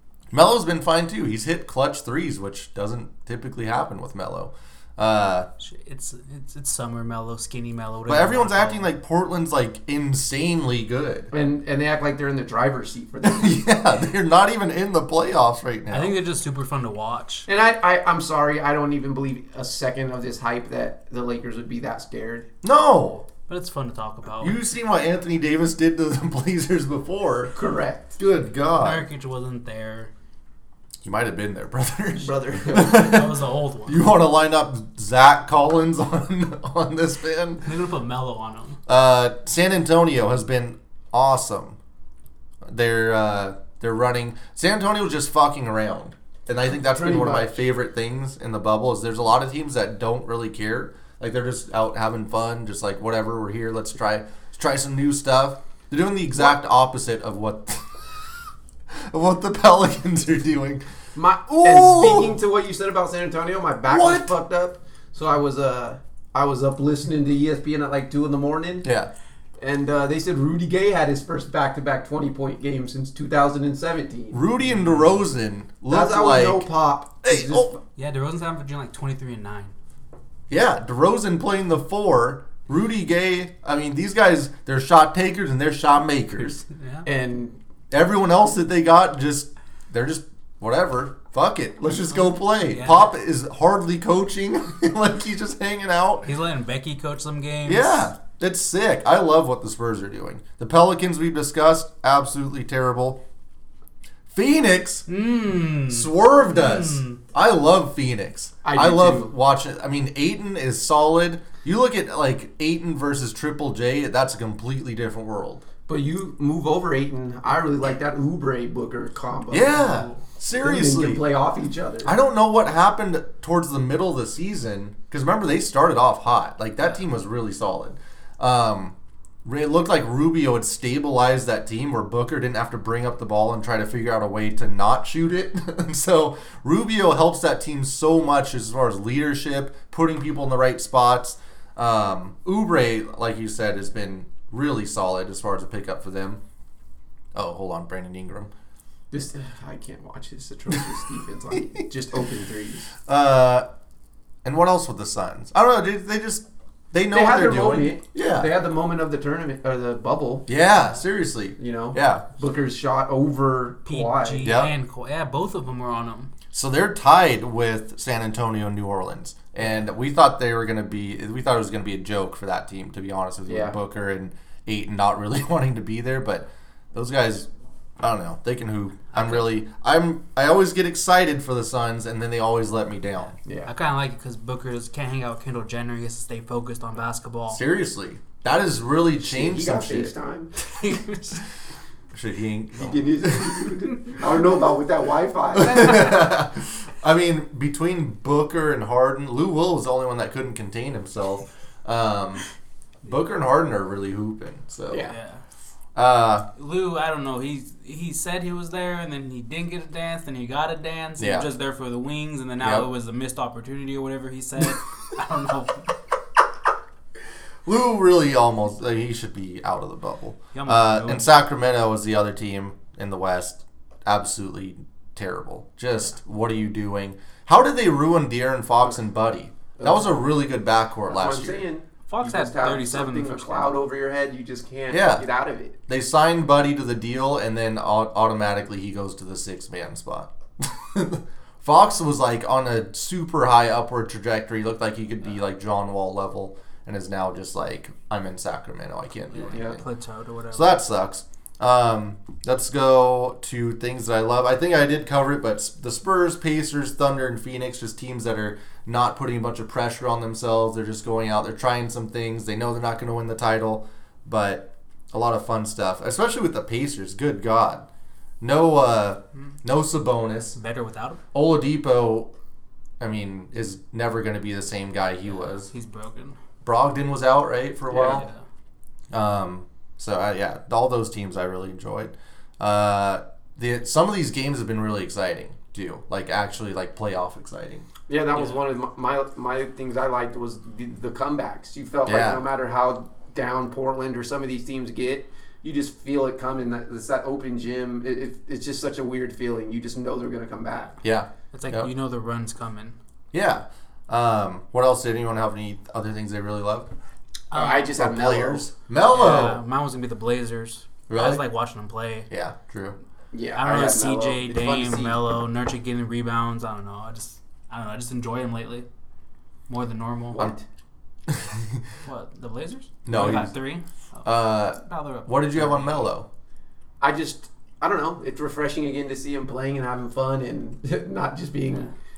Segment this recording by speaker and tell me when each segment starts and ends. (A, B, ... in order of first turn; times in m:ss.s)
0:00.3-0:05.5 A
0:05.6-0:08.9 B
0:08.1-0:11.3 A
0:11.3-0:13.6 C
0:13.2-0:16.1 A
0:15.9-0:17.5 B
0:17.5-0:22.5 C
0:22.6-0:23.2 A
0:23.5-0:24.6 B
0:24.4-0:27.5 A
0:27.5-0:28.2 C
0:28.2-0:29.0 A
0:28.8-0:30.1 B
0:31.0-0:37.6 A
0:32.1-0:33.0 C
0:32.8-0:34.0 B
0:37.6-0:38.8 B
0:38.9-0:41.8 A
0:42.6-0:58.2 A
0:46.7-0:47.6 C
0:58.9-1:00.8 A
1:01.1-1:08.9 C
1:01.5-1:02.4 A
1:03.9-1:04.3 A
1:08.8-1:09.1 A
1:09.6-1:14.4 C
1:14.3-1:16.7 A
1:14.6-1:15.2 B
1:15.9-1:17.8 C
1:17.2-1:17.7 A
1:18.0-1:19.7 B
1:20.5-1:26.6 A
1:26.7-1:27.0 B
1:27.0-1:27.6 C
1:27.9-1:36.3 A
1:32.6-1:33.1 B
1:36.2-1:38.1 B
1:37.6-1:43.2 A
1:44.3-1:45.1 A
1:45.1-1:47.2 B
1:45.9-1:55.6 A
1:48.6-1:49.3 C
1:55.9-1:59.9 C
1:59.5-2:01.2 A
1:59.7-2:00.2 B
2:00.6-2:02.1 C
2:02.0-2:26.4 A
2:27.3-2:28.5 A
2:29.1-2:32.9 C
2:33.1-2:33.7 A
2:34.4-2:38.5 A
2:37.1-2:40.5 C
2:40.5-2:42.2 A
2:41.6-2:44.5 C
2:43.9-2:46.3 B
2:44.4-2:44.7 A
2:46.5-2:57.5 A
2:53.5-2:53.8 C
2:58.0-3:03.4 A
2:59.1-2:59.4 B
3:03.4-3:03.7 C
3:03.7-3:07.6 B
3:07.5-3:10.1 A
3:09.2-3:10.6 C
3:10.6-3:11.4 B
3:12.1-3:13.6 A
3:12.8-3:16.3 C
3:15.5-3:22.4 A
3:23.0-3:25.1 A
3:24.9-3:25.1 C
3:25.1-3:25.4 B
3:25.9-3:26.5 A
3:26.6-3:35.9 B
3:31.2-3:31.5 A
3:32.6-3:32.9 A
3:37.6-3:51.6 A
3:40.5-3:41.3 B
3:49.8-3:50.2 C
3:51.0-3:55.8 C
3:52.1-3:53.7 B
3:54.9-3:55.2 A
3:55.9-4:09.8 A
4:09.3-4:10.8 B
4:09.5-4:09.8 C
4:10.5-4:27.8 A
4:28.4-4:30.6 A
4:30.5-4:31.2 B
4:31.3-4:32.3 A
4:33.0-4:35.7 A
4:35.4-4:36.4 B
4:36.6-4:38.2 A
4:37.9-4:38.2 C
4:38.0-4:38.4 B
4:39.1-4:47.9 A
4:48.1-5:00.9 C
4:52.0-4:52.4 A
5:01.0-5:01.9 A
5:01.5-5:03.0 B
5:03.3-5:06.9 A
5:07.5-5:07.9 B
5:07.5-5:08.6 C
5:08.0-5:09.6 A
5:09.0-5:12.3 B
5:11.1-5:11.4 A
5:12.3-5:13.0 A
5:13.3-5:15.2 C
5:13.5-5:18.8 B
5:19.7-5:20.5 B
5:20.3-5:20.6 C
5:21.3-5:21.8 A
5:22.0-5:26.1 B
5:23.0-5:23.5 A
5:24.2-5:26.3 A
5:27.0-5:31.9 C